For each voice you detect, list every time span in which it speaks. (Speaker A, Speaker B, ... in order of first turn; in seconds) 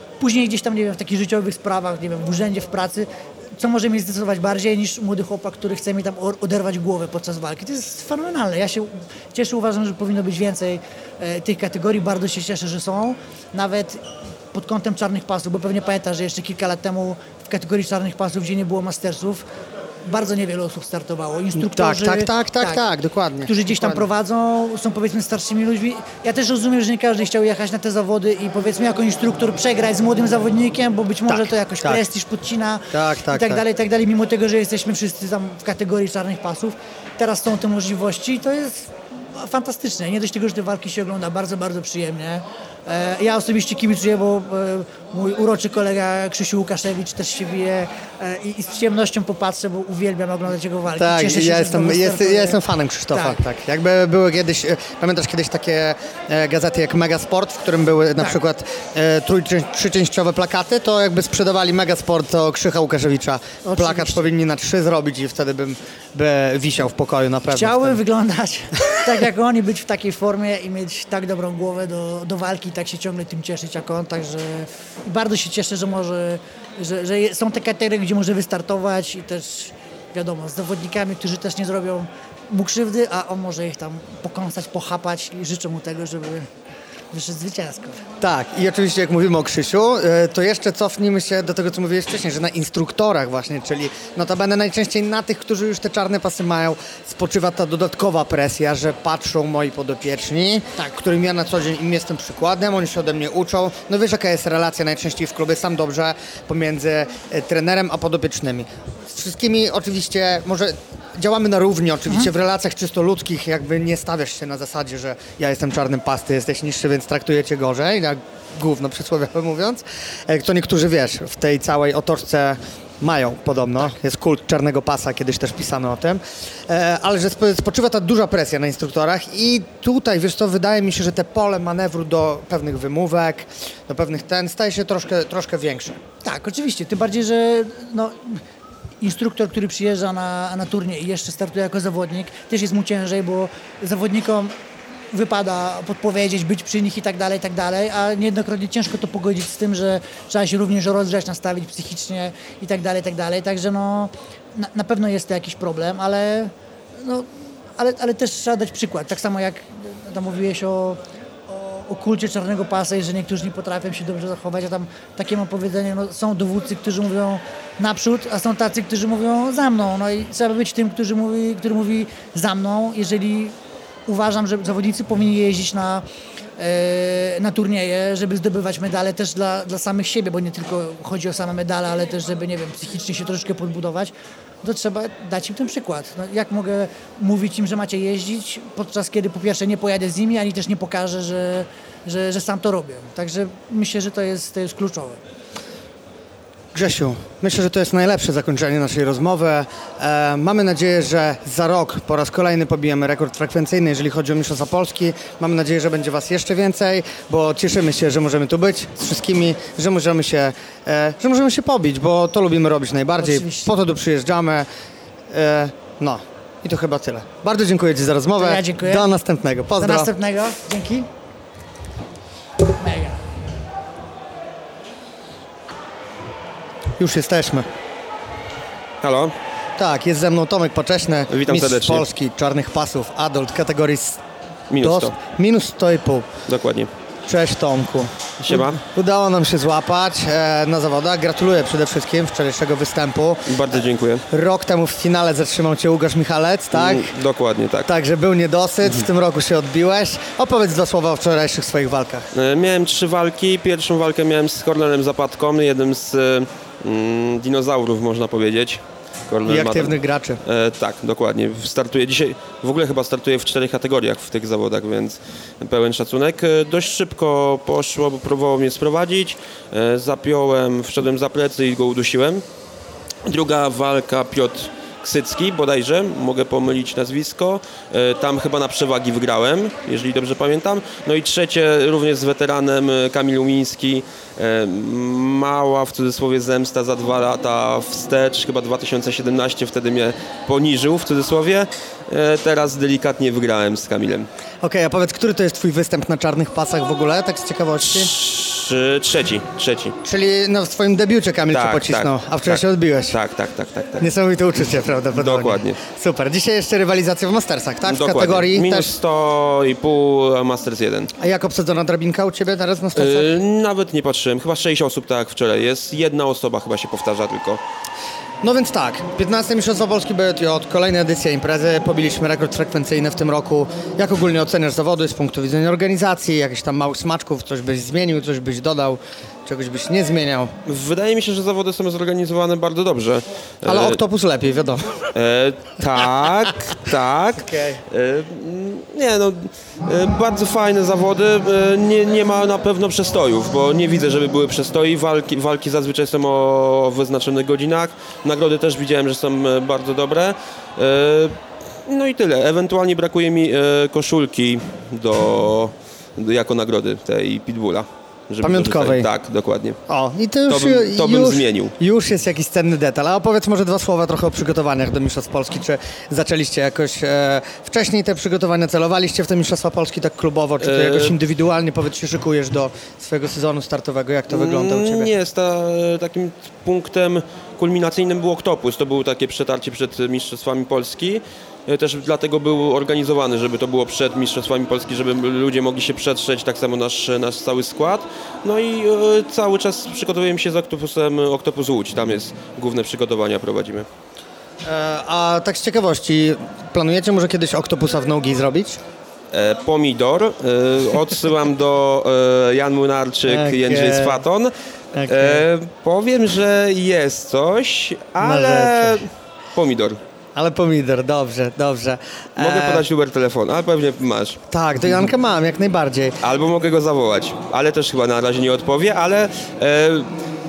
Speaker A: 0.2-14.0, 14.5-19.4, 20.1-22.8, 23.4-52.6, 53.1-53.4, 63.6-64.2, 67.5-86.5, 87.1-88.0, 136.2-138.4, 139.0-144.5, 145.1-173.5, 174.1-176.0, 176.6-195.2, 213.2-213.7, 218.4-219.1, 219.8-221.1, 222.8-223.2
Speaker B: 21.6-24.1, 31.3-32.0, 32.9-33.6, 51.0-68.0, 88.2-136.0, 196.7-214.7, 215.3-220.1, 227.0-227.7, 229.8-234.2, 234.8-236.3, 237.3-247.1, 247.8-252.2, 259.5-260.4, 294.6-298.1, 300.0-303.1, 304.0-308.9, 311.2-313.3, 318.4-330.5, 333.6-334.9, 337.4-337.8, 358.4-359.1, 359.9-375.1, 394.6-398.8, 403.3-404.2, 404.9-405.4, 408.2-409.0, 410.3-412.8, 414.5-416.1
Speaker C: 229.0-229.3, 231.3-232.1, 234.7-235.2, 236.5-236.9, 238.4-238.8, 243.5-244.2, 246.7-247.9, 252.3-272.4, 273.2-294.3, 297.9-299.9, 301.5-304.1, 305.1-305.8, 307.8-311.1, 312.9-317.6, 330.6-334.0, 335.1-359.8, 360.5-361.7, 370.6-371.1, 374.3-393.9, 399.3-404.5, 405.1-410.0, 412.4-414.4, 416.2-420.1